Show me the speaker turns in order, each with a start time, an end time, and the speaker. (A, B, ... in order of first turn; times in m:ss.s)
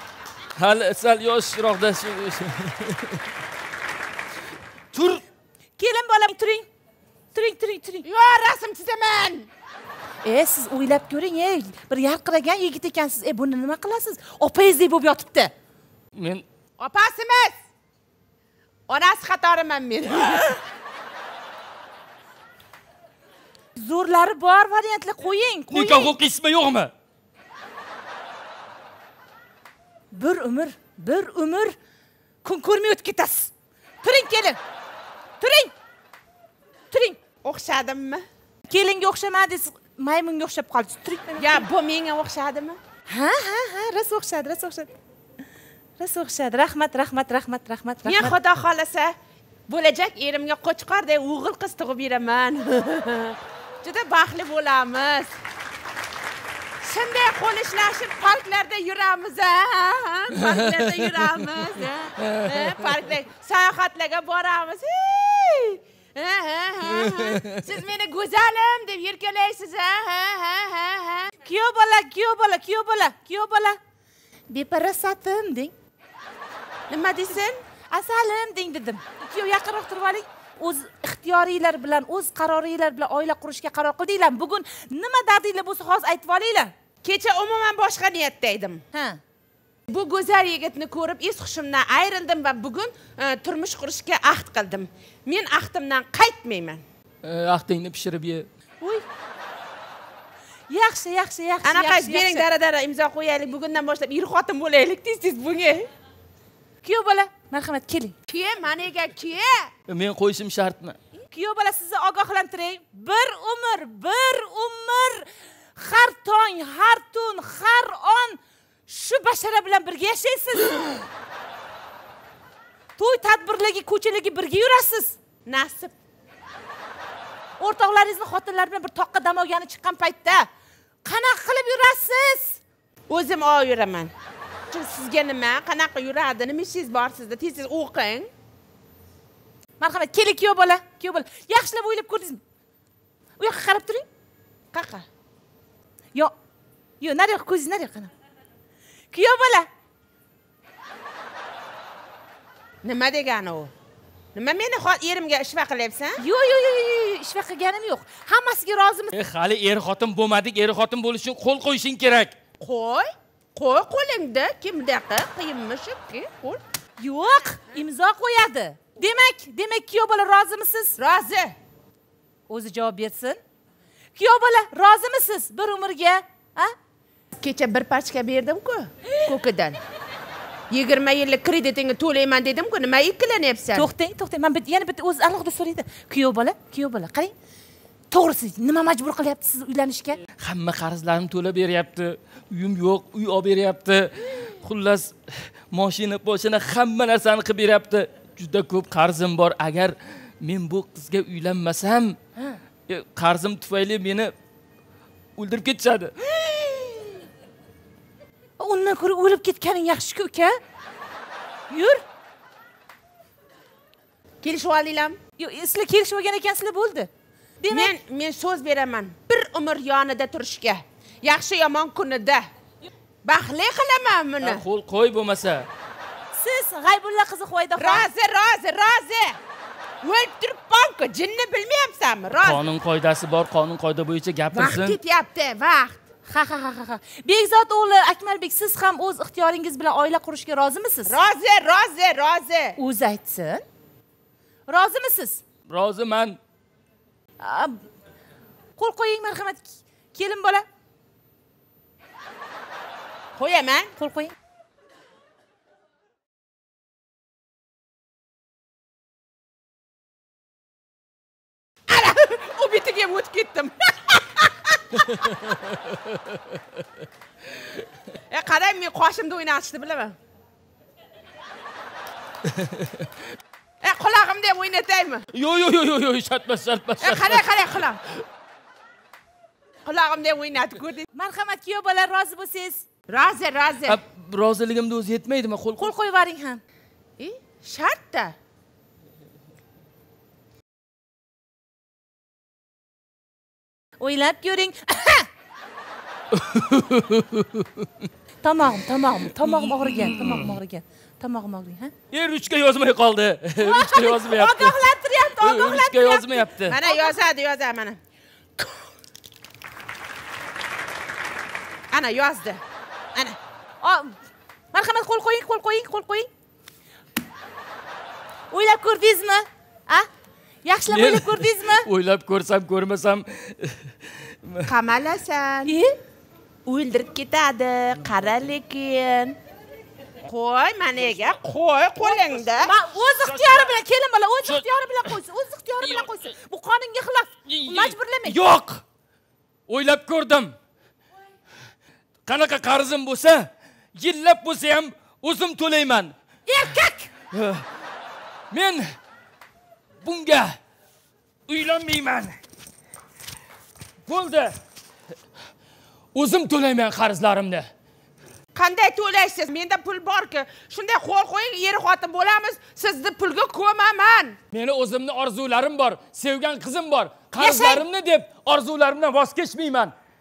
0:00.6-0:03.2 A
0:04.9-0:05.2 A
0:05.8-0:06.7 B
0:07.3-0:08.0 B
0:08.0-0:09.5 C
0:10.2-0:15.5 B
0:16.1-0:16.4 A
0:16.8-0:17.6 C
0:18.9-0:20.6 C
0:23.8-0:26.2 B
0:25.7-0:26.9 A
0:30.1-0:31.8 B
0:32.4-0:34.6 B
0:35.4-0:35.7 B
0:36.9-0:37.2 B
0:37.4-0:38.2 C
0:38.7-0:41.6 B
0:41.4-0:42.8 C
0:43.1-0:44.9 B
0:46.0-0:48.4 B
0:48.0-0:49.1 C
0:49.7-0:55.3 C
0:56.8-1:11.3 C
1:00.3-1:01.1 A
1:02.2-1:02.9 A
1:06.8-1:07.6 A
1:11.4-1:13.8 B
1:14.5-1:15.7 B
1:16.9-1:17.6 C
1:17.9-1:26.7 B
1:27.0-1:28.8 C
1:28.9-1:29.2 B
1:29.9-1:36.8 C
1:37.2-1:38.5 A
1:40.7-1:42.4 B
1:41.6-1:45.9 C
1:46.8-1:48.1 B
1:48.3-1:49.7 C
1:49.9-1:51.0 A
1:51.3-2:01.0 B
2:03.0-2:05.2 B
2:05.4-2:05.9 C
2:07.6-2:10.5 B
2:11.0-2:12.6 B
2:13.1-2:14.1 C
2:14.7-2:18.3 C
2:19.8-2:22.4 B
2:23.4-2:24.0 B
2:24.7-2:25.0 C
2:27.0-2:28.1 B
2:29.1-2:29.7 B
2:32.8-2:33.7 C
2:34.3-2:36.2 C
2:36.2-2:39.1 B
2:39.1-2:42.3 A
2:42.6-2:46.6 C
2:47.0-2:51.0 B
2:51.0-2:51.6 C
2:52.5-2:53.4 B
2:54.1-2:56.7 B
2:57.4-2:59.8 C
3:00.7-3:03.9 C
3:03.7-3:07.3 B
3:08.1-3:10.2 B
3:10.4-3:22.2 A
3:22.9-3:24.3 A
3:25.4-3:26.9 A
3:28.6-3:30.6 B
3:31.7-3:32.0 B
3:34.4-3:35.2 C
3:35.4-3:37.1 B
3:37.6-3:37.9 B
3:37.7-3:42.5 C
3:43.2-3:44.6 C
3:44.4-3:45.7 A
3:46.3-3:48.1 B
3:47.8-3:49.4 C
3:50.0-3:52.6 C
3:52.4-3:55.0 A
3:54.5-3:56.0 C
3:56.3-4:01.2 B
4:01.0-4:02.8 C
4:02.8-4:03.6 B
4:04.7-4:05.4 B
4:05.7-4:06.4 A
4:07.4-4:07.8 B
4:08.8-4:10.6 B
4:13.4-4:13.9 C
4:14.0-4:14.3 B
4:21.9-4:25.3 C
4:25.7-4:26.4 A
4:28.3-4:30.2 C
4:32.5-4:33.0 A
4:33.8-4:35.3 C
4:35.3-4:37.5 A
4:37.0-4:38.0 C
4:39.8-4:41.1 C
4:41.1-4:42.8 B
4:43.1-4:44.0 C
4:43.8-4:45.9 A
4:45.8-4:46.6 B
4:47.2-4:48.4 C
4:54.0-4:55.3 B
4:56.3-4:57.8 A
4:58.4-5:01.9 B
4:59.4-5:00.6 A
5:02.1-5:04.8 A
5:03.6-5:07.2 B
5:05.4-5:06.8 A
5:06.6-5:08.0 C
5:11.9-5:12.6 C
5:13.8-5:14.1 B
5:14.7-5:16.3 B
5:18.5-5:20.1 B
5:20.6-5:21.9 B
5:20.9-5:24.7 A
5:24.6-5:25.8 C
5:25.7-5:26.0 B
5:26.6-5:29.4 C
5:30.2-5:32.7 C
5:32.0-5:38.4 B
5:33.2-5:33.8 A
5:34.4-5:35.1 A
5:35.8-5:36.1 A
5:37.5-5:38.8 A
5:39.7-5:40.5 A
5:42.2-5:46.1 A
5:46.5-5:47.1 B
5:47.3-5:47.6 A
5:48.5-5:48.9 A
5:50.0-5:50.6 A
5:51.5-5:52.4 A
5:54.0-5:54.6 A
5:56.1-5:57.7 A
5:58.5-6:04.4 C
6:04.5-6:09.9 A
6:07.4-6:07.8 B